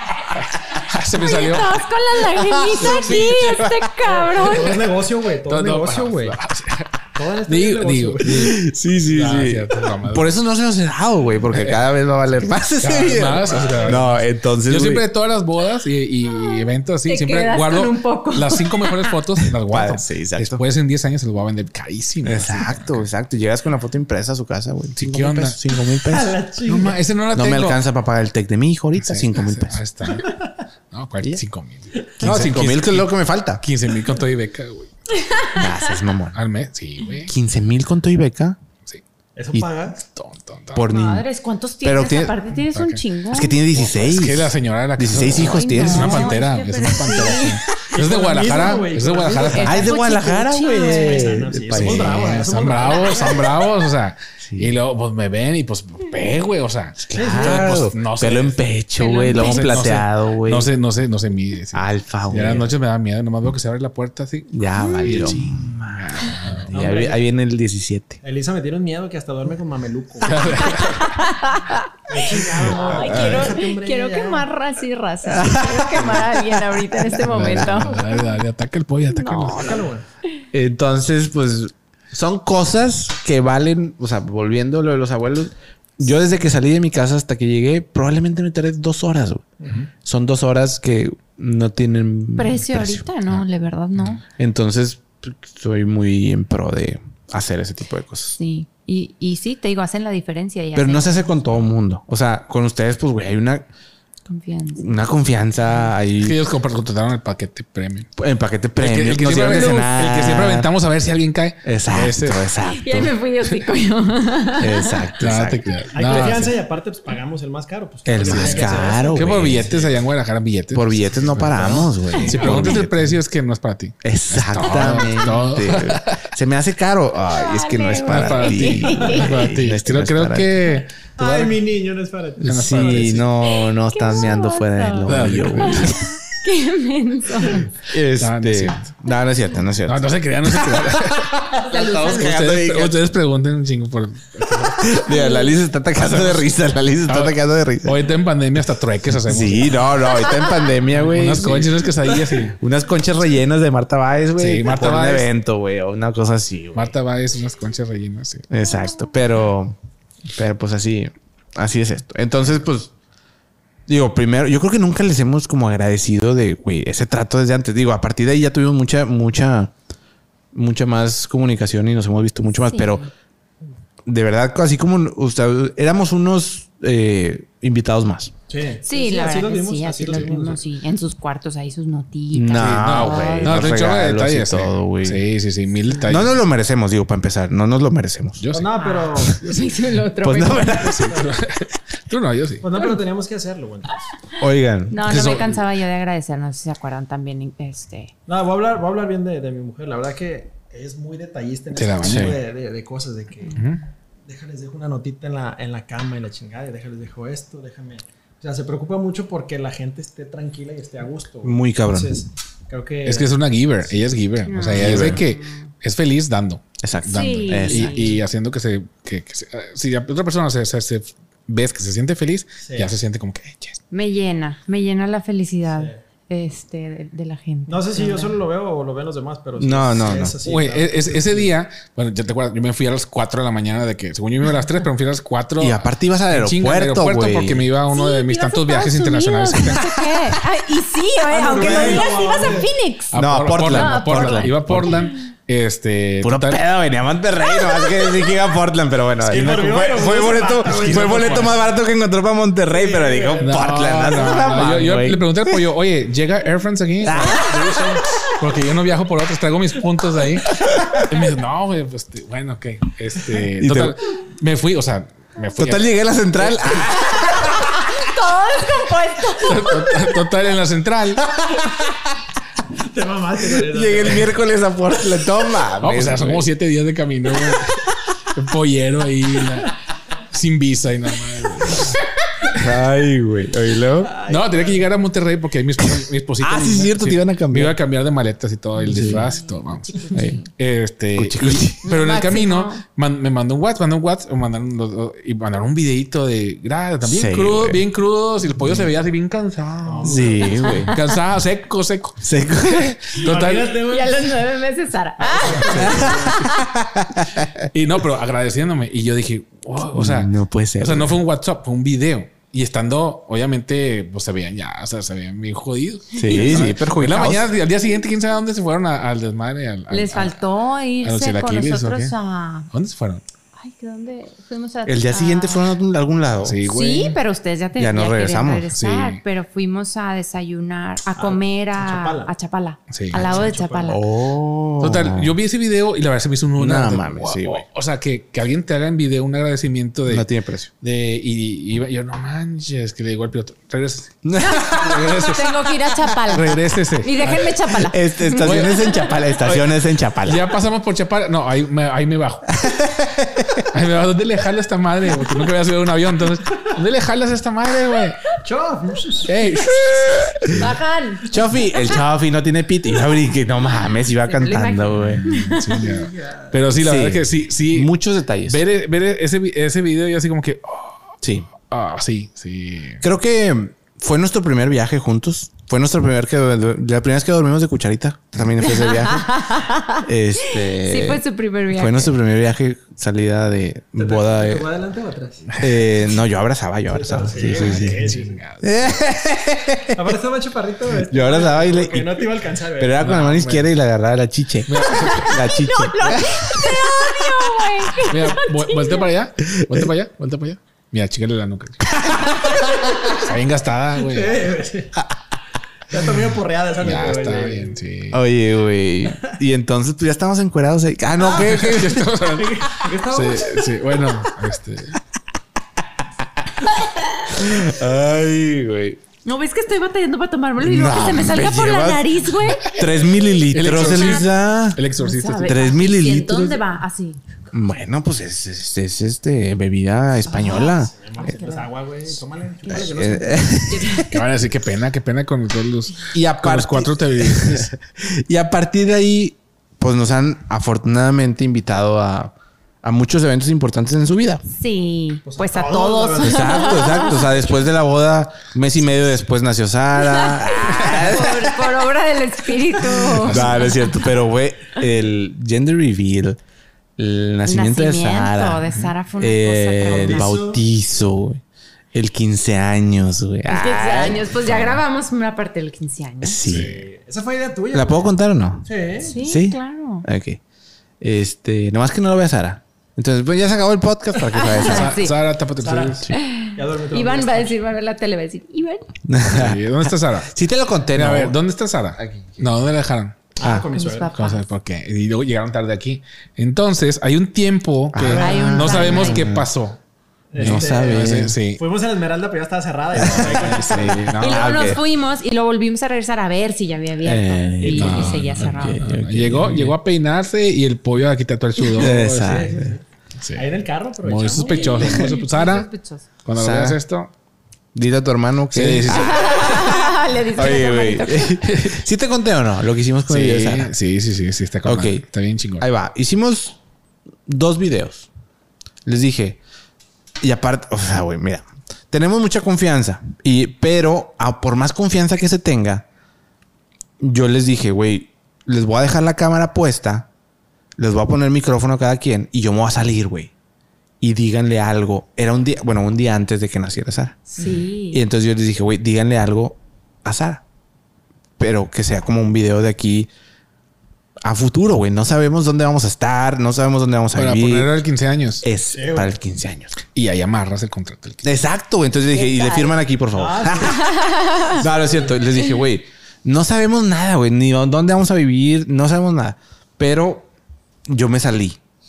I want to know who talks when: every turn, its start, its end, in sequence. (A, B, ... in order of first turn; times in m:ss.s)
0:00.9-0:01.8 A
0:01.1-0:04.8 B
0:02.8-0:03.4 A
0:02.8-0:03.7 C
0:04.1-0:06.4 D
0:04.5-0:04.8 A
0:05.5-0:06.9 A
0:07.2-0:08.5 D
0:07.5-0:10.3 A
0:08.2-0:15.1 C
0:11.5-0:11.8 A
0:12.8-0:23.1 A
0:13.4-0:14.0 D
0:16.3-0:19.2 B
0:19.7-0:20.6 C
0:22.2-0:26.4 C
0:25.0-0:25.6 A
0:26.1-0:27.0 D
0:26.6-0:27.8 A
0:27.3-0:29.8 C
0:29.0-0:30.3 A
0:30.2-0:30.5 D
0:30.9-0:34.9 A
0:32.2-0:33.6 C
0:35.2-0:35.8 B
0:35.5-0:36.4 C
0:36.3-0:37.3 A
0:37.3-0:38.6 C
0:39.4-0:40.0 D
0:40.1-0:40.9 A
0:40.8-0:41.3 C
0:40.9-0:43.6 B
0:41.8-0:42.4 C
0:42.7-0:43.0 A
0:43.3-0:46.4 C
0:43.7-0:49.9 A
0:45.3-0:47.6 B
0:47.9-0:50.0 D
0:49.3-0:51.4 B
0:49.6-0:52.4 C
0:50.6-0:53.5 D
0:51.7-0:58.8 A
0:53.0-0:53.4 B
0:54.4-0:54.8 C
0:57.0-1:00.7 C
0:57.2-0:57.8 D
0:59.0-0:59.8 B
0:59.3-1:06.7 A
1:01.7-1:02.7 C
1:04.5-1:08.2 C
1:04.8-1:05.4 B
1:06.7-1:07.2 D
1:08.2-1:10.9 D
1:10.2-1:11.2 A
1:10.8-1:18.2 B
1:12.1-1:14.5 D
1:12.9-1:13.3 C
1:13.1-1:13.4 A
1:15.3-1:16.4 C
1:17.1-1:17.8 C
1:17.2-1:19.8 A
1:19.1-1:19.9 B
1:19.5-1:20.0 D
1:20.5-1:29.5 C
1:29.6-1:29.9 D
1:30.0-1:33.1 C
1:32.4-1:34.2 B
1:34.4-1:38.4 C
1:38.4-1:41.3 B
1:40.8-1:43.7 C
1:44.3-1:44.9 B
1:44.8-1:46.4 C
1:46.2-1:48.1 A
1:48.2-1:50.7 C
1:48.8-1:52.5 A
1:51.6-1:53.1 C
1:52.7-1:55.0 B
1:54.6-1:55.7 C
1:55.2-1:56.5 A
1:55.9-1:59.9 D
1:58.0-1:59.7 C
1:58.2-2:06.2 A
2:00.7-2:03.2 C
2:02.2-2:02.8 D
2:04.0-2:10.7 C
2:07.3-2:09.4 B
2:08.1-2:11.6 A
2:11.2-2:13.2 D
2:12.4-2:13.2 A
2:12.4-2:16.1 C
2:13.5-2:17.7 B
2:15.1-2:16.1 A
2:17.8-2:23.0 C
2:18.2-2:18.9 A
2:19.9-2:25.0 A
2:21.7-2:22.3 B
2:24.8-2:28.0 C
2:25.1-2:25.5 B
2:26.0-2:26.5 A
2:27.1-2:30.0 A
2:29.3-2:31.8 C
2:30.9-2:32.6 A
2:32.5-2:37.0 C
2:34.4-2:35.3 A
2:36.8-2:38.5 A
2:38.5-2:39.8 C
2:40.3-2:42.9 C
2:43.9-2:49.7 C
2:50.5-2:53.1 C
2:52.7-2:53.0 B
2:54.1-2:58.3 C
2:58.5-3:00.6 D
2:58.8-3:03.7 B
3:02.3-3:05.2 C
3:02.6-3:06.4 A
3:06.1-3:08.4 C
3:08.4-3:08.7 A
3:08.5-3:09.5 D
3:08.8-3:11.1 B
3:10.2-3:11.3 C
3:11.0-3:12.7 A
3:12.6-3:14.1 D
3:14.4-3:15.4 C
3:14.9-3:18.1 B
3:15.0-3:15.6 A
3:18.3-3:23.6 D
3:21.7-3:22.4 A
3:23.5-3:23.8 A
3:24.3-3:33.4 D
3:31.4-3:32.2 C
3:33.0-3:43.8 A
3:34.4-3:35.7 B
3:34.8-3:35.2 C
3:36.8-3:38.1 C
3:37.1-3:38.2 B
3:42.6-3:43.0 D
3:43.9-3:48.4 B
3:47.7-3:51.5 D
3:49.6-3:50.4 C
3:50.4-3:59.9 A
3:55.6-3:57.7 C
3:57.9-4:05.1 B
4:01.3-4:02.7 D
4:03.1-4:06.6 A
4:03.1-4:05.1 C
4:06.2-4:15.6 C
4:07.6-4:08.2 B
4:09.2-4:11.7 D
4:10.9-4:11.5 A
4:12.7-4:13.9 D
4:13.4-4:17.6 A
4:17.0-4:17.6 C
4:17.2-4:18.0 D
4:18.2-4:26.7 A
4:20.8-4:21.0 C
4:23.6-4:24.0 C
4:25.6-4:27.6 C
4:26.9-4:30.1 B
4:29.4-4:31.2 A
4:32.8-4:34.4 D
4:33.7-4:36.5 C
4:35.8-4:39.8 A
4:40.3-4:42.0 A
4:42.5-4:44.1 C
4:44.1-4:44.8 D
4:44.2-5:03.8 A
4:46.4-4:47.8 C
4:48.8-4:49.3 C
4:49.1-4:50.4 B
4:50.1-4:50.4 C
4:51.2-4:51.8 C
4:51.8-4:52.8 B
4:57.0-4:57.8 C
4:59.9-5:00.7 D
5:00.0-5:01.0 C
5:00.7-5:01.1 B
5:02.2-5:03.2 C
5:03.2-5:04.4 D
5:03.8-5:06.7 B
5:05.2-5:06.5 D
5:05.6-5:06.0 A
5:05.9-5:07.7 C
5:07.7-5:20.4 A
5:09.9-5:11.2 C
5:16.1-5:17.5 C
5:16.2-5:16.6 B
5:19.9-5:22.7 B
5:21.0-5:22.1 A
5:22.7-5:23.2 A
5:23.6-5:25.7 B
5:24.9-5:26.6 C
5:26.4-5:27.2 A
5:26.7-5:34.0 B
5:27.8-5:28.7 C
5:28.7-5:29.2 A
5:31.2-5:32.3 D
5:32.9-5:33.3 A
5:33.1-5:34.0 D
5:33.9-5:35.3 C
5:34.8-5:40.3 A
5:36.6-5:37.6 C
5:40.1-5:40.7 C
5:40.8-5:45.7 A
5:44.2-5:45.1 C
5:44.4-5:49.2 B
5:46.3-5:47.6 A
5:47.8-5:50.5 C
5:48.4-5:52.5 A
5:52.5-5:53.7 C
5:53.7-5:58.2 A
5:58.4-5:59.3 D
5:59.2-6:00.8 A
6:00.5-6:01.2 B
6:01.3-6:05.3 C
6:03.8-6:05.9 B
6:05.2-6:07.9 A
6:05.8-6:06.6 D
6:06.8-6:08.6 C
6:08.5-6:11.0 A
6:11.2-6:11.5 C
6:11.5-6:13.0 A
6:13.0-6:19.3 C
6:18.6-6:22.1 B
6:20.0-6:21.2 C
6:21.7-6:24.7 C
6:24.0-6:25.5 D
6:25.5-6:25.8 A
6:25.6-6:28.1 C
6:26.9-6:28.4 D
6:27.4-6:29.0 A
6:28.6-6:30.0 C
6:30.0-6:33.1 D
6:31.1-6:32.3 C
6:32.8-6:36.6 C
6:33.0-6:33.7 A
6:34.7-6:35.5 A
6:34.9-6:39.1 B
6:38.0-6:42.3 A
6:39.4-6:39.9 C
6:43.1-6:44.5 A
6:44.0-6:44.9 D
6:45.9-6:47.8 D
6:46.8-6:48.2 A
6:48.1-6:52.1 C
6:51.2-6:55.0 A
6:52.3-6:54.2 D
6:57.3-6:59.0 C
6:59.2-7:02.8 B
7:00.6-7:04.8 C
7:03.5-7:05.5 A
7:05.0-7:07.2 B
7:05.4-7:06.6 C
7:07.5-7:11.3 C
7:10.3-7:11.7 B
7:10.4-7:13.6 D
7:12.7-7:14.2 C
7:13.7-7:14.1 B
7:14.0-7:17.7 A
7:16.1-7:24.4 C
7:24.5-7:27.3 B
7:25.3-7:27.1 D
7:26.2-7:31.6 C
7:30.0-7:33.8 B
7:33.1-7:33.8 A
7:33.2-7:36.4 C
7:37.0-7:38.6 C
7:37.5-7:40.4 B
7:38.7-7:38.9 A
7:39.2-7:41.4 C
7:39.8-7:40.6 D
7:41.9-7:44.8 C
7:43.5-7:46.4 B
7:46.2-7:46.7 C
7:46.5-7:46.9 A
7:46.5-7:49.2 D
7:47.7-7:48.7 C
7:49.0-7:50.1 B
7:49.2-7:50.4 C
7:51.0-7:55.0 C
7:54.3-7:55.2 B
7:54.6-7:56.1 A
7:55.6-7:57.6 D
7:56.1-7:58.9 B
7:59.1-8:01.4 C
7:59.2-8:00.3 A
8:01.0-8:03.2 A
8:02.0-8:02.4 C
8:03.4-8:04.2 D
8:03.4-8:03.7 C
8:03.7-8:04.4 B
8:04.1-8:09.8 A
8:07.9-8:09.5 C
8:08.1-8:08.5 D
8:08.1-8:09.3 B
8:10.3-8:14.1 D
8:10.4-8:11.4 C
8:10.4-8:11.6 A
8:12.9-8:14.7 A
8:13.0-8:14.8 C
8:14.2-8:18.8 B
8:17.0-8:19.8 C
8:17.6-8:18.0 D
8:17.7-8:22.4 A
8:21.8-8:22.8 D
8:21.8-8:22.8 C
8:23.2-8:23.4 A
8:23.3-8:25.1 D
8:24.0-8:25.7 A
8:24.4-8:26.1 B
8:26.2-8:27.1 A
8:26.3-8:26.8 C
8:27.8-8:33.7 C
8:28.5-8:29.2 A
8:28.9-8:31.4 B
8:31.4-8:31.8 A
8:33.1-8:35.7 A
8:34.6-8:35.0 C
8:35.6-8:36.6 C
8:37.3-8:38.1 C
8:38.8-8:39.4 C
8:40.2-8:45.9 C
8:47.0-8:50.1 C
8:50.8-8:53.3 C
8:54.0-8:57.2 C
8:57.3-8:58.0 B
8:57.9-9:00.4 C
9:01.4-9:03.1 C
9:04.2-9:07.8 C
9:07.1-9:08.4 A
9:08.4-9:09.8 C
9:08.7-9:09.1 D
9:09.9-9:11.2 A
9:11.2-9:13.9 C
9:12.1-9:12.7 B
9:13.2-9:13.9 D
9:13.8-9:14.6 B
9:14.5-9:20.3 C
9:14.6-9:15.1 D
9:20.9-9:21.6 C